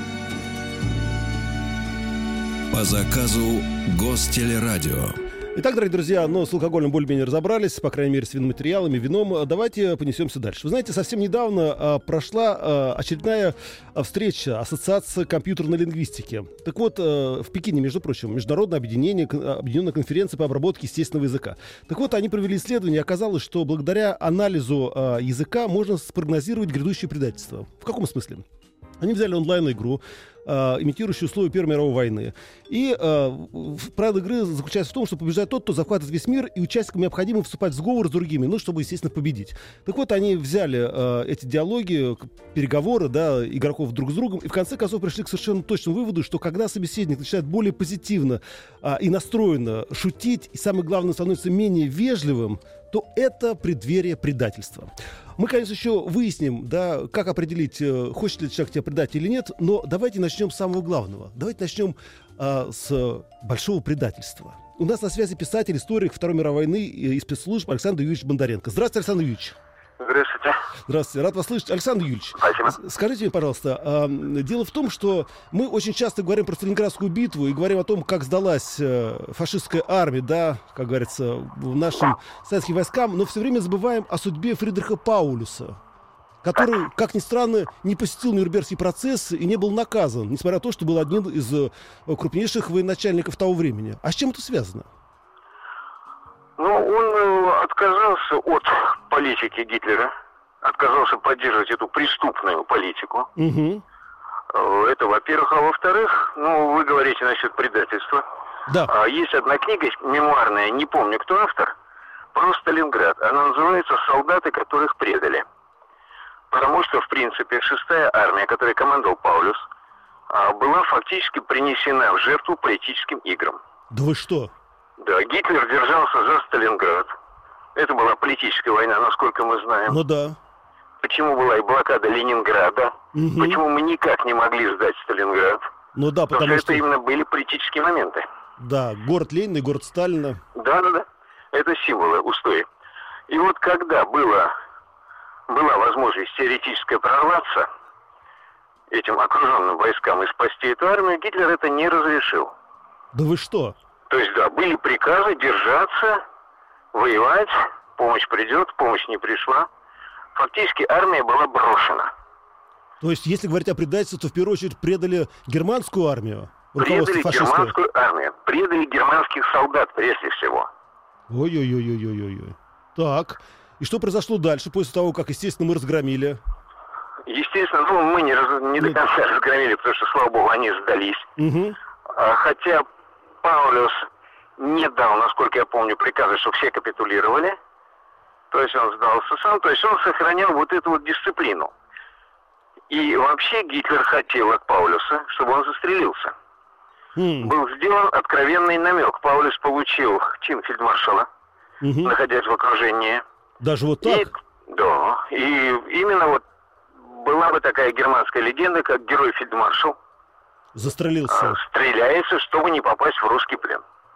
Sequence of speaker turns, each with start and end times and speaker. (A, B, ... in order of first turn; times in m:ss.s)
0:02.7-0:05.2 A
0:05.5-0:28.4 B
0:29.0-1:09.6 B
1:10.0-1:10.6 C
1:10.9-1:25.8 B
1:12.4-1:12.7 C
1:26.4-1:34.9 B
1:36.6-1:43.3 C
1:43.4-1:43.8 B
1:44.5-1:48.2 C
1:48.8-1:51.7 C
1:52.3-1:55.4 C
1:56.5-1:59.6 C
2:00.3-2:03.6 C
2:03.9-2:04.5 B
2:05.0-2:07.1 C
2:07.7-2:10.0 C
2:09.9-2:10.4 B
2:11.0-2:15.6 C
2:13.1-2:13.6 B
2:15.9-2:16.8 B
2:16.3-2:18.2 C
2:18.6-2:20.4 B
2:20.5-2:22.6 C
2:23.3-2:24.5 C
2:25.5-2:27.7 C
2:28.9-2:32.5 C
2:33.1-2:33.8 B
2:34.1-2:36.2 C
2:36.9-2:39.7 C
2:40.3-2:42.1 C
2:43.0-2:47.7 B
2:46.8-2:50.7 C
2:51.3-2:56.4 B
2:57.2-3:01.3 C
3:01.4-3:01.8 B
3:02.1-3:02.8 C
3:03.4-3:04.0 C
3:04.6-3:07.6 C
3:08.5-3:11.7 C
3:12.9-3:16.3 C
3:17.2-3:17.5 B
3:17.4-3:21.3 C
3:21.8-3:22.1 B
3:22.0-3:23.2 C
3:23.6-3:24.3 B
3:24.0-3:26.4 C
3:27.0-3:30.0 C
3:30.7-3:31.6 B
3:31.3-3:33.8 C